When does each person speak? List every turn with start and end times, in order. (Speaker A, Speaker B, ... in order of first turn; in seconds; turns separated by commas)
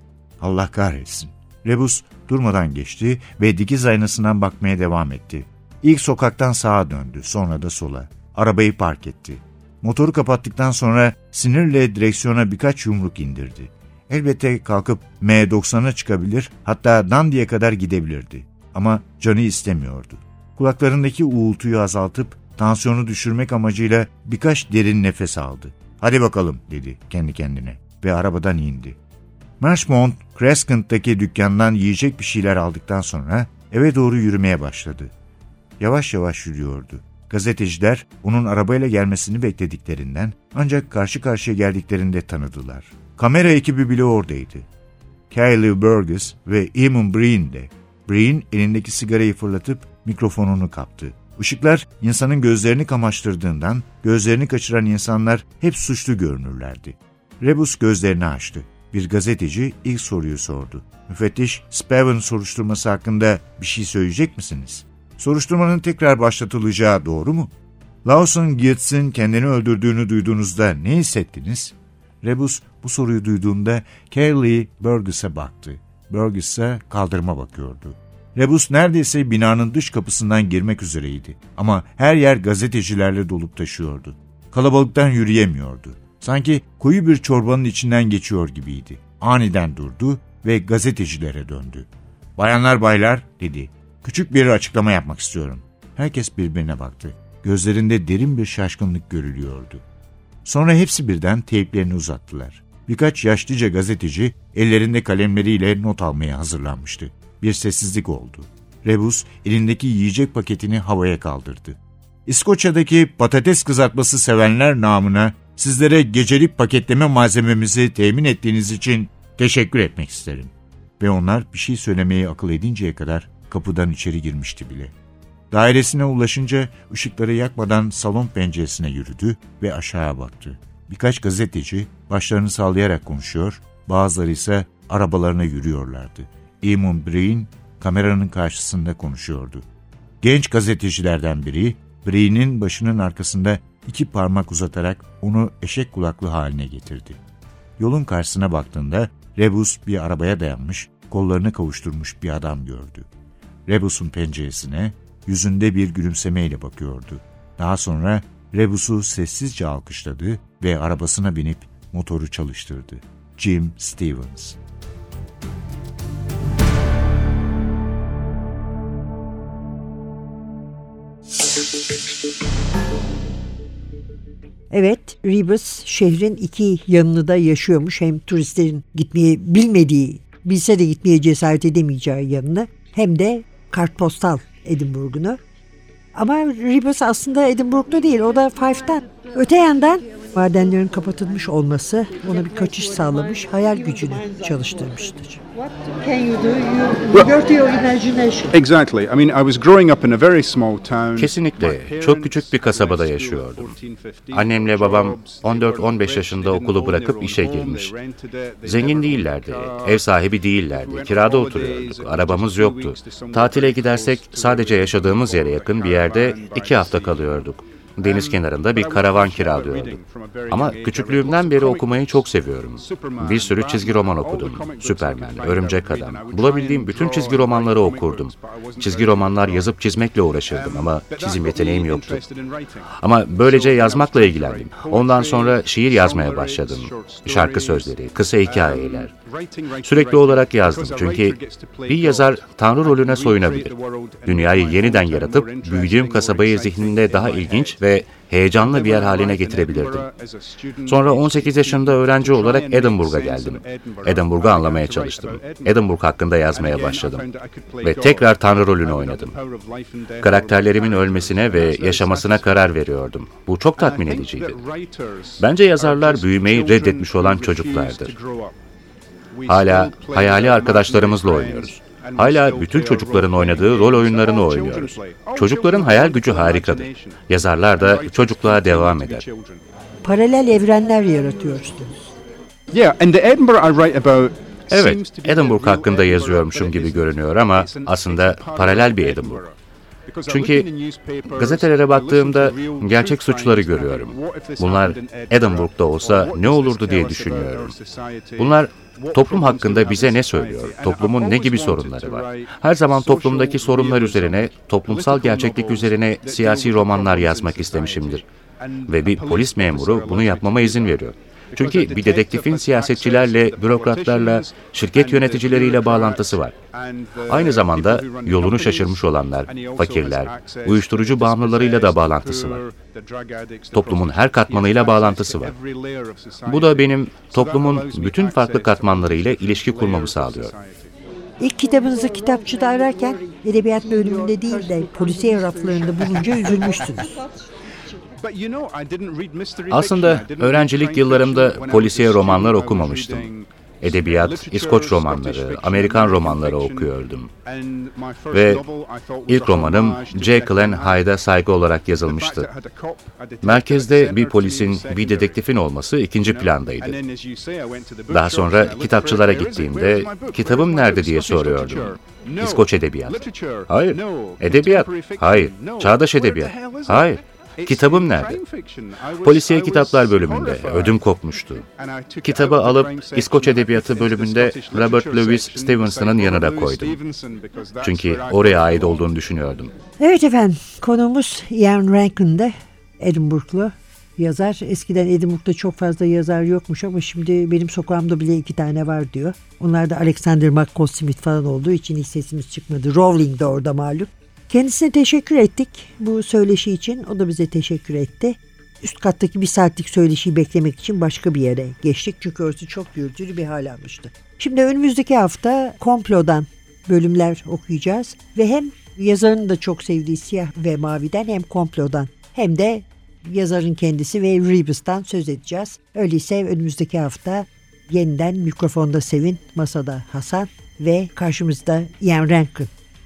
Speaker A: 0.4-29.0, Speaker A: 29.6-35.1, Speaker A: 35.8-44.7, Speaker A: 45.3-67.5, Speaker A: 68.0-99.8, Speaker A: 100.4-124.9, Speaker A: 125.5-139.7, Speaker A: 140.2-147.2, Speaker A: 147.8-153.1, Speaker A: 153.7-164.6, Speaker B: 174.7-185.4, Speaker B: 186.1-195.4, Speaker C: 192.1-198.5, Speaker B: 197.1-198.3, Speaker D: 198.5-210.0, Speaker E: 201.2-203.7, Speaker E: 204.3-207.9, Speaker E: 208.6-232.2, Speaker D: 210.7-217.3, Speaker D: 218.0-222.2, Speaker D: 222.8-229.7, Speaker D: 230.5-237.9, Speaker E: 232.9-239.1, Speaker D: 238.4-247.8, Speaker E: 239.8-250.1, Speaker D: 248.6-255.8, Speaker E: 250.9-257.3, Speaker D: 256.5-262.5, Speaker E: 257.8-259.4, Speaker E: 260.2-264.6, Speaker D: 263.8-268.6, Speaker E: 265.4-268.1, Speaker D: 269.3-277.2, Speaker E: 269.5-279.2, Speaker D: 277.8-279.6, Speaker B: 280.0-282.1, Speaker D: 282.7-289.5, Speaker E: 284.7-289.4, Speaker D: 290.1-311.0, Speaker E: 290.2-290.7, Speaker E: 291.3-297.7, Speaker E: 298.4-308.2, Speaker E: 308.9-316.6, Speaker D: 311.5-330.9, Speaker E: 317.2-322.6, Speaker E: 323.7-325.6, Speaker E: 326.4-330.5, Speaker B: 331.4-337.2, Speaker C: 331.7-337.1, Speaker D: 338.2-346.9, Speaker E: 339.7-343.3, Speaker E: 343.8-347.3, Speaker D: 347.4-351.0, Speaker E: 348.3-348.6, Speaker E: 349.3-352.5, Speaker D: 352.1-355.4, Speaker E: 353.4-357.0, Speaker D: 356.2-371.0, Speaker E: 358.1-368.4, Speaker E: 369.2-371.7, Speaker D: 371.7-379.1, Speaker E: 372.2-377.0, Speaker E: 377.8-379.7, Speaker B: 380.0-422.7